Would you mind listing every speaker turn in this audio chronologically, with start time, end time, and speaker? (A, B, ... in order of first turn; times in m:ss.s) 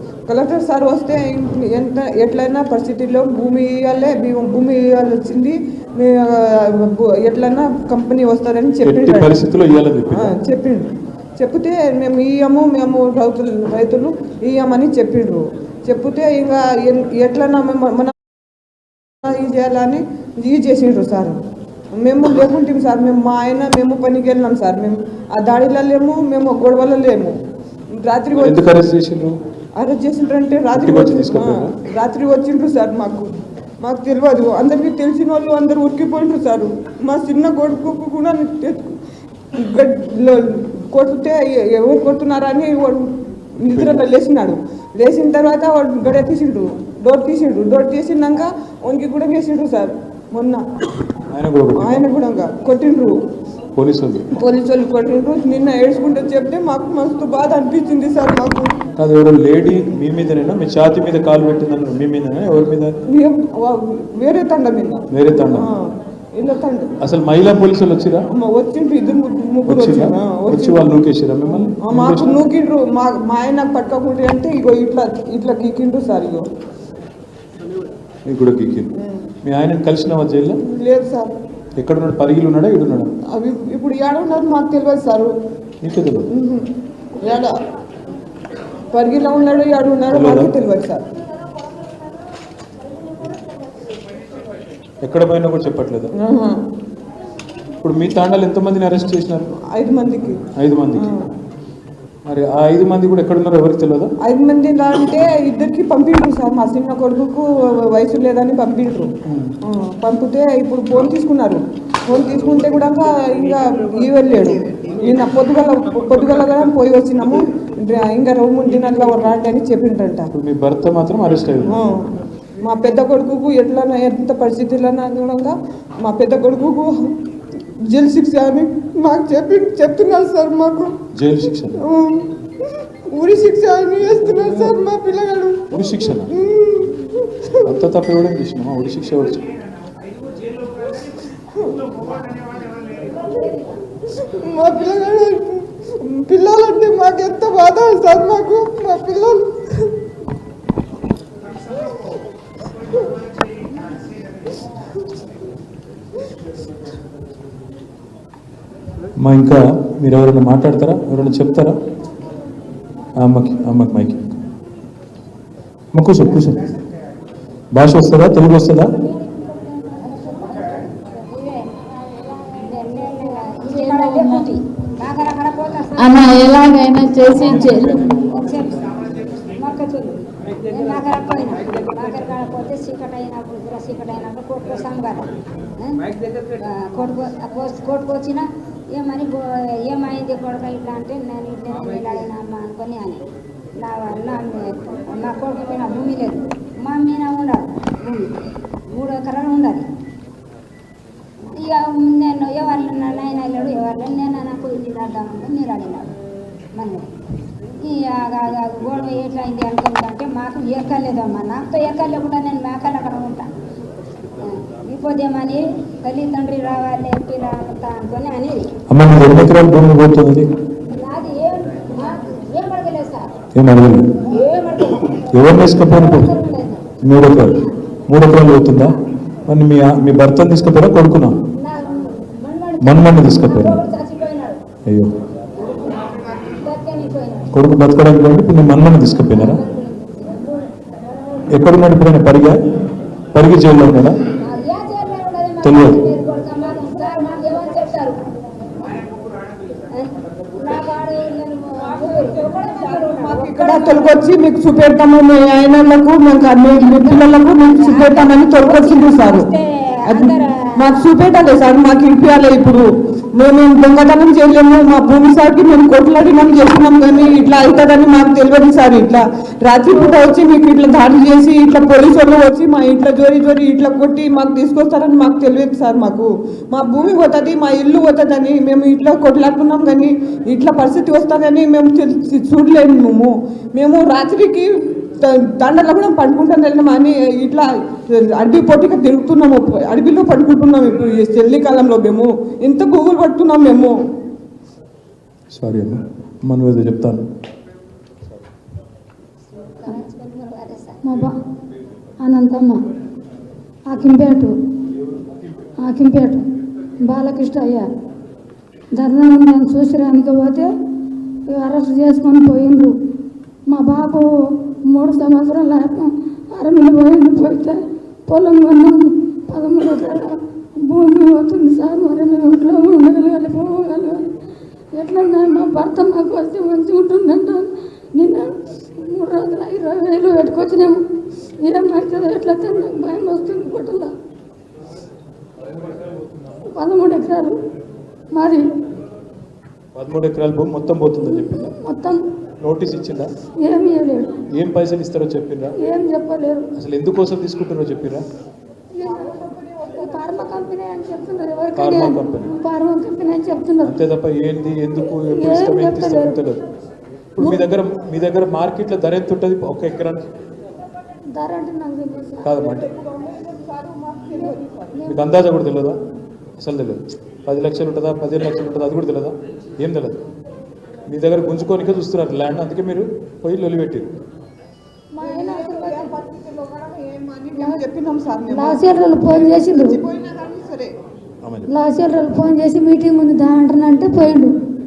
0:00.3-0:09.4 A
0:08.8-0:10.3 B
0:10.1-0:10.8 A
0:11.4-0:18.1 A
0:19.2-0:21.4 A
0:22.0-0:27.3 A
0:28.0-0:28.6 A
0:28.4-0:29.4 B
0:29.8-0:33.3 A
0:30.7-0:31.8 B
0:33.8-0:39.0 A
0:39.6-0:50.6 A
0:43.6-0:44.1 B
0:51.3-0:52.0 B
0:51.8-0:53.1 A
0:53.8-0:54.3 B
0:54.4-0:58.7 A
0:59.0-1:03.0 B
1:03.1-1:05.9 A
1:05.1-1:05.7 B
1:06.4-1:06.9 A
1:07.0-1:08.2 B
1:08.4-1:10.9 A
1:09.7-1:12.4 B
1:11.8-1:16.5 A
1:18.3-1:18.9 B
1:19.0-1:19.3 A
1:19.4-1:20.6 B
1:20.6-1:21.3 A
1:21.8-1:23.1 B
1:23.3-1:25.3 A
1:25.8-1:26.3 B
1:26.3-1:26.7 A
1:27.2-1:27.6 A
1:28.9-1:31.1 A
1:30.1-1:30.5 B
1:35.0-1:36.1 B
1:36.2-1:36.6 A
1:37.8-1:39.5 B
1:39.7-1:40.4 A
1:40.6-1:41.1 B
1:40.9-1:41.3 A
1:42.3-1:44.1 B
1:44.2-1:49.1 A
1:49.3-1:49.5 B
1:49.7-2:00.3 A
2:00.3-2:01.8 B
2:01.7-2:07.1 A
2:07.9-2:10.9 A
2:11.2-2:11.8 B
2:11.8-2:15.7 A
2:15.7-2:16.3 B
2:16.3-2:17.7 A
2:17.7-2:19.5 B
2:21.5-2:21.9 A
2:24.2-2:29.9 A
2:39.2-2:41.8 B
2:43.2-2:44.2 B
2:45.9-2:46.7 B
2:47.7-2:48.9 B
2:49.0-2:51.7 C
2:52.4-2:56.4 C
2:53.7-2:54.4 D
2:56.0-2:58.0 D
2:57.3-3:06.0 C
2:57.4-2:58.7 B
3:06.6-3:13.2 C
3:13.8-3:19.8 C
3:21.5-3:26.1 C
3:26.7-3:27.1 C
3:27.8-3:33.5 C
3:34.4-3:38.7 C
3:38.9-3:40.5 B
3:40.9-3:43.3 C
3:43.5-3:44.1 B
3:44.2-3:47.7 C
3:45.3-3:46.3 B
3:47.0-3:49.0 B
3:49.5-3:51.4 B
3:51.6-3:54.6 C
3:52.8-3:53.8 B
3:54.9-3:55.1 B
3:55.6-3:57.5 C
3:57.5-3:59.6 B
3:59.3-4:01.5 C
4:01.5-4:02.6 B
4:03.3-4:04.2 B
4:04.4-4:09.1 C
4:05.6-4:06.0 B
4:09.9-4:14.2 C
4:11.9-4:19.5 A
4:16.7-4:21.0 C
4:20.1-4:54.0 A
4:55.5-4:57.3 B
4:59.5-5:01.0 C
5:01.0-5:01.3 E
5:02.2-5:02.8 E
5:03.9-5:04.5 E
5:05.8-5:06.4 E
5:07.0-5:07.9 E
5:09.0-5:10.7 E
5:11.5-5:12.9 E
5:13.7-5:14.3 E
5:14.9-5:24.3 E
5:24.9-5:31.0 E
5:31.6-5:34.1 E
5:36.7-5:37.6 E
5:38.3-5:38.7 E
5:40.0-5:41.7 B
5:41.2-5:42.2 E
5:42.6-5:43.3 B
5:43.6-5:44.4 E
5:44.5-5:45.7 B
5:45.8-5:46.7 E
5:46.8-5:48.2 B
5:49.0-5:49.4 E
5:49.0-5:50.7 A
5:49.9-5:53.9 E
5:51.8-5:52.5 B
5:53.8-5:56.6 B
5:55.3-5:56.4 E
5:57.4-6:00.3 B
6:01.3-6:02.5 E
6:02.4-6:02.9 B
6:02.6-6:05.1 A
6:04.3-6:05.0 E
6:05.1-6:06.0 B
6:06.6-6:10.2 B
6:11.1-6:14.1 B
6:15.1-6:16.1 E
6:15.2-6:21.0 A
6:17.6-6:17.8 E
6:18.5-6:20.0 E
6:21.4-6:21.7 B
6:21.7-6:24.5 E